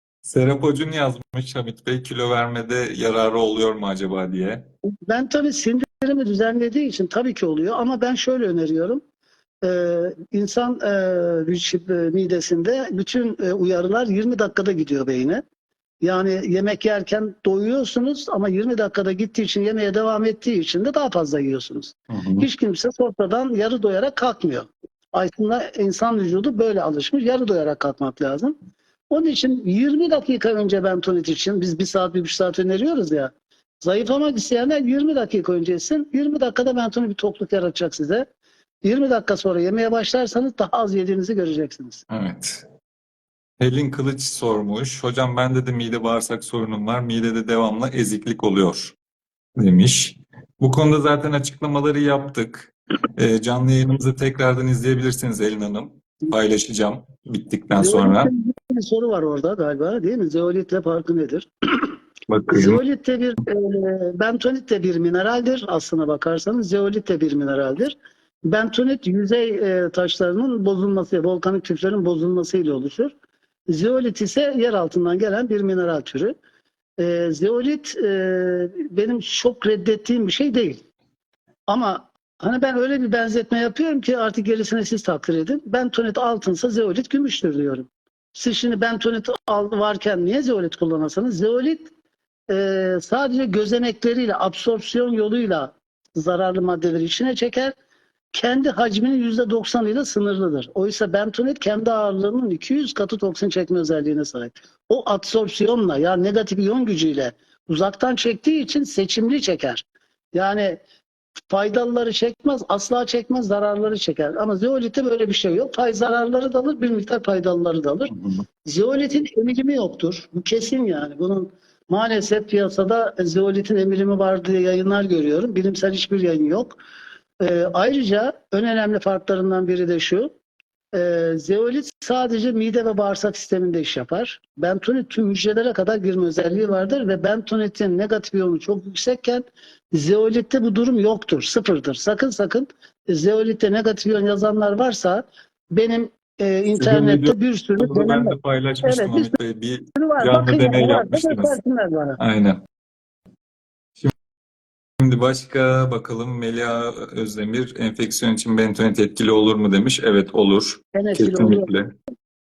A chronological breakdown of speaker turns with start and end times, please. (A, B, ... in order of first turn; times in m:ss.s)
0:00.2-0:04.6 A
0:05.0-0:09.0 B
0:09.6-0:15.4 B
0:16.0-0:28.6 B
0:22.1-0:22.5 A
0:29.1-0:38.2 B
0:38.8-0:42.0 B
0:42.1-0:42.6 A
0:43.6-0:49.0 A
0:49.6-0:58.3 A
0:57.8-1:02.0 B
1:02.3-1:02.8 A
1:02.5-1:07.9 B
1:08.4-1:13.1 B
1:13.7-1:16.3 B
1:17.0-1:20.8 B
1:21.7-1:31.9 B
1:32.5-1:37.8 B
1:38.3-1:50.8 B
1:51.5-1:58.1 B
1:58.1-1:58.4 A
1:58.6-2:06.8 B
2:07.4-2:10.3 B
2:10.9-2:29.4 B
2:26.8-2:31.5 A
2:30.0-2:32.2 B
2:32.2-2:32.6 A
2:35.0-2:41.9 A
2:40.9-2:41.7 B